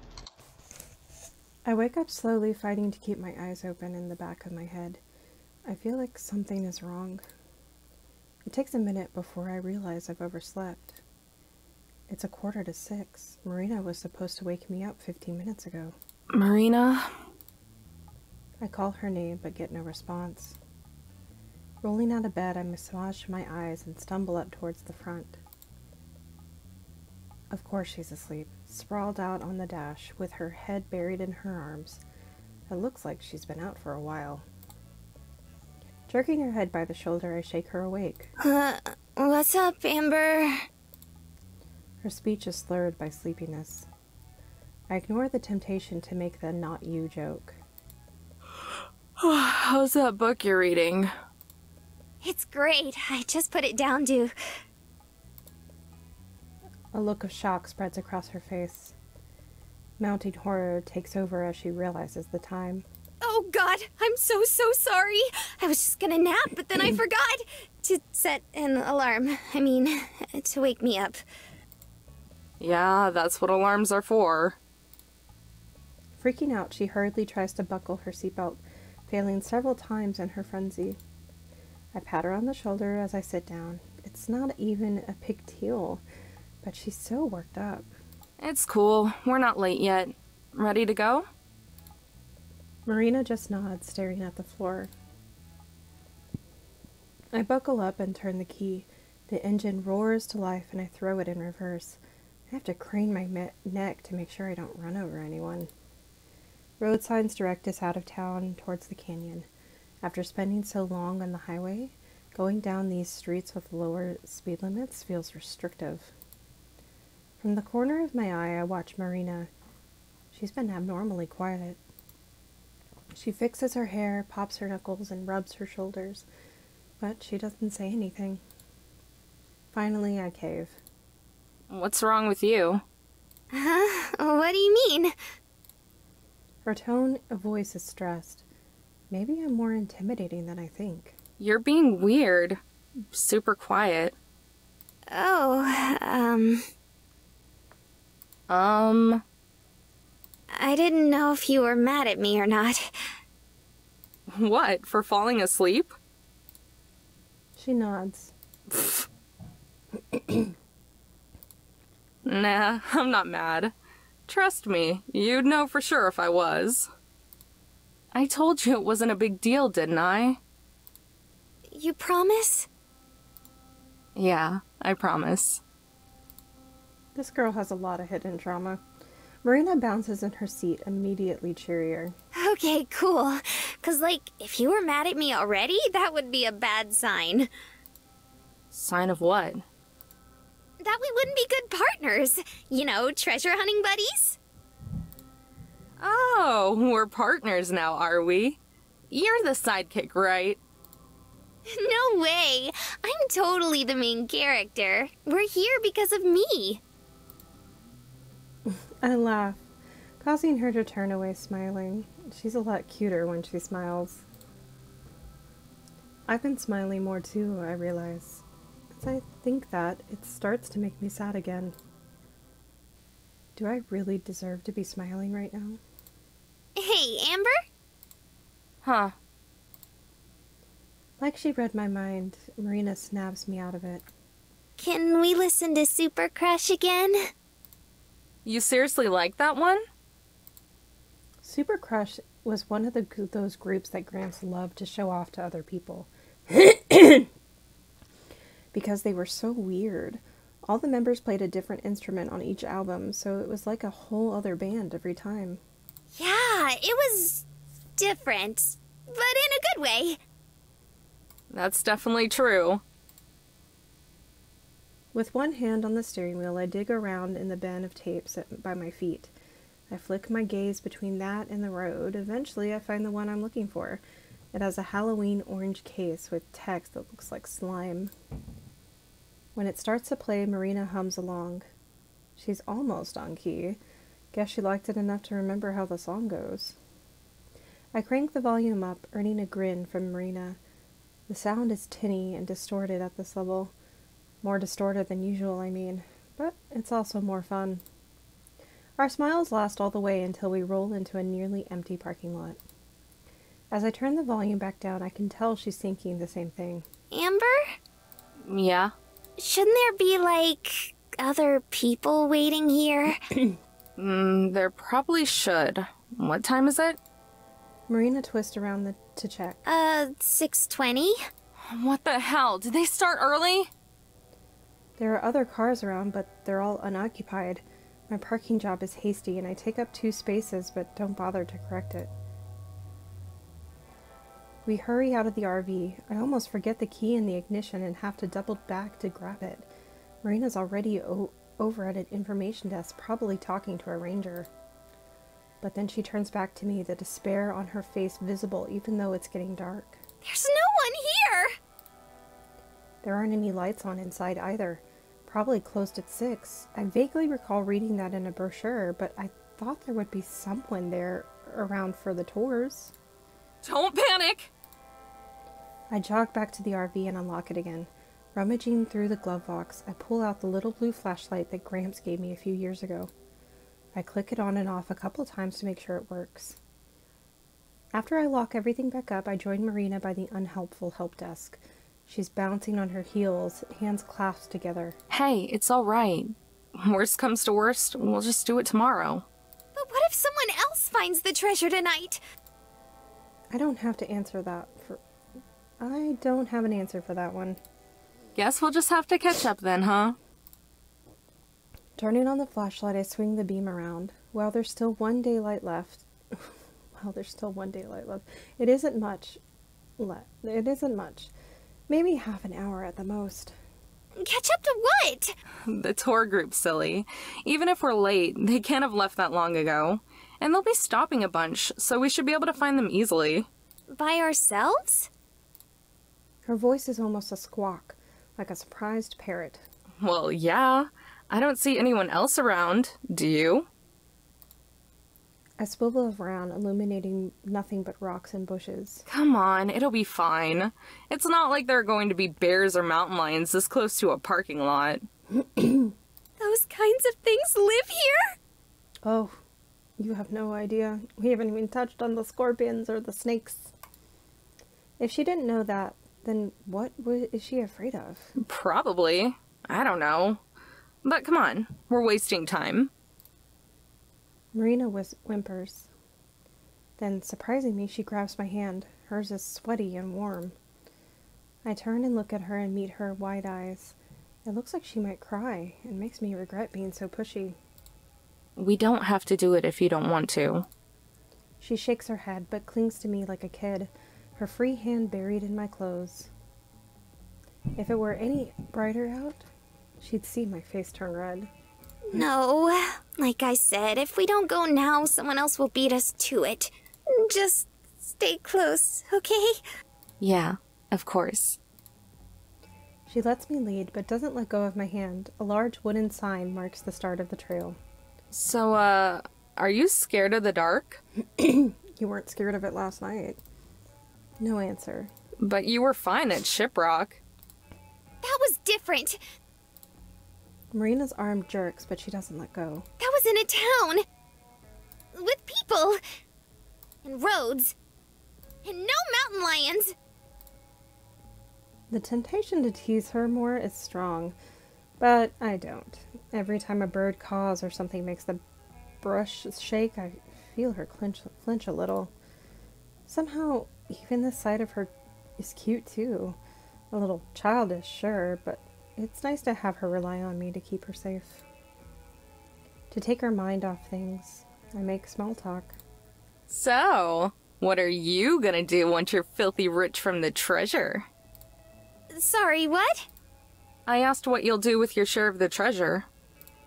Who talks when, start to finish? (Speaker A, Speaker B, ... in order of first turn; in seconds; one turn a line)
Speaker A: 1.7-5.0
Speaker A: 5.7-7.2
Speaker A: 8.5-11.0
Speaker A: 12.1-16.0
Speaker B: 16.3-17.1
Speaker A: 18.6-20.6
Speaker A: 21.8-25.4
Speaker A: 27.5-32.0
Speaker A: 32.7-34.5
Speaker A: 36.1-38.3
Speaker C: 38.4-40.7
Speaker A: 42.0-43.9
Speaker A: 44.9-47.6
Speaker B: 48.6-51.1
Speaker C: 52.2-54.3
Speaker A: 56.9-59.0
Speaker A: 60.0-62.9
Speaker C: 63.2-71.2
Speaker B: 72.6-74.6
Speaker A: 76.2-81.0
Speaker A: 81.9-86.0
Speaker A: 86.6-87.9
Speaker B: 88.4-91.3
Speaker A: 92.9-94.9
Speaker A: 97.3-102.0
Speaker A: 102.5-105.7
Speaker A: 106.8-109.5
Speaker A: 110.0-116.1
Speaker A: 117.4-119.5
Speaker A: 120.3-121.8
Speaker A: 123.1-126.3
Speaker A: 127.0-128.4
Speaker A: 129.7-130.8
Speaker B: 131.7-132.8
Speaker C: 133.5-135.1
Speaker A: 136.7-138.4
Speaker A: 139.1-141.2
Speaker B: 141.4-142.6
Speaker B: 143.1-144.2
Speaker C: 145.1-146.6
Speaker B: 148.5-149.2
Speaker C: 150.5-152.9
Speaker B: 154.3-155.9
Speaker A: 157.6-158.3
Speaker B: 158.7-159.1
Speaker A: 160.1-160.5
Speaker B: 162.2-163.7
Speaker B: 164.3-166.9
Speaker B: 168.1-170.4
Speaker C: 171.7-172.7
Speaker B: 174.2-175.6
Speaker A: 177.2-178.8
Speaker A: 179.4-182.2
Speaker C: 182.3-187.5
Speaker B: 188.7-189.6
Speaker C: 190.8-194.4
Speaker B: 196.0-200.6
Speaker C: 201.7-206.8
Speaker A: 208.7-209.6
Speaker A: 210.2-214.3
Speaker A: 216.3-221.8
Speaker A: 223.6-225.8
Speaker C: 226.8-227.6
Speaker B: 228.8-229.1
Speaker A: 231.2-234.1
Speaker C: 234.8-237.2
Speaker B: 238.4-239.8
Speaker A: 241.4-247.3
Speaker A: 248.7-255.6
Speaker C: 256.1-257.5
Speaker C: 258.0-260.2
Speaker B: 261.5-262.8
Speaker A: 265.1-269.3
Speaker A: 269.9-274.0
Speaker A: 274.5-278.1
Speaker A: 279.6-281.7
Speaker A: 282.4-283.8
Speaker A: 284.3-286.8
Speaker A: 287.9-290.6
Speaker A: 291.3-293.7
Speaker A: 294.4-297.8
Speaker A: 299.0-302.6
Speaker A: 303.7-306.9
Speaker C: 307.1-307.7
Speaker B: 308.4-308.9
Speaker C: 309.4-313.2
Speaker B: 314.0-317.0
Speaker A: 317.9-319.6
Speaker C: 319.7-321.2
Speaker B: 321.6-323.7
Speaker A: 325.0-332.1
Speaker A: 334.6-339.7
Speaker A: 340.2-344.5
Speaker A: 345.6-350.0
Speaker C: 350.2-351.5
Speaker A: 353.0-362.9
Speaker B: 363.6-364.5
Speaker A: 365.9-373.1
Speaker A: 373.9-376.6
Speaker A: 377.9-385.0
Speaker B: 385.1-389.3
Speaker C: 389.8-392.2
Speaker A: 393.5-395.0
Speaker A: 395.8-397.6
Speaker B: 398.4-400.2
Speaker A: 402.0-409.4
Speaker A: 410.0-411.3
Speaker A: 411.9-413.6
Speaker C: 414.2-415.4
Speaker B: 415.7-423.5
Speaker C: 423.9-425.1
Speaker A: 426.4-429.6
Speaker B: 430.0-433.7
Speaker A: 435.6-439.1
Speaker B: 439.1-445.1
Speaker A: 445.4-445.9
Speaker C: 446.4-448.4
Speaker A: 449.0-449.4
Speaker A: 450.0-453.7
Speaker A: 455.0-458.3
Speaker B: 458.4-460.4
Speaker B: 461.0-462.9
Speaker A: 464.5-465.9
Speaker A: 467.0-470.6
Speaker A: 471.6-477.6
Speaker B: 478.6-480.7
Speaker A: 481.6-486.3
Speaker A: 487.8-489.5
Speaker A: 490.0-491.5
Speaker C: 492.1-499.6
Speaker B: 500.2-501.6
Speaker A: 503.1-507.8
Speaker B: 508.3-511.0
Speaker A: 511.4-513.4
Speaker A: 514.4-515.1
Speaker B: 515.4-517.2
Speaker C: 518.2-519.2
Speaker A: 520.7-522.9
Speaker C: 523.0-524.0
Speaker C: 525.1-526.0
Speaker C: 527.0-527.8
Speaker C: 528.6-530.0
Speaker A: 531.9-534.4
Speaker A: 535.0-538.4
Speaker A: 539.0-542.1
Speaker A: 543.1-546.4
Speaker A: 546.9-551.5
Speaker A: 552.9-555.8
Speaker B: 556.5-561.1
Speaker C: 562.1-563.1
Speaker B: 563.9-566.1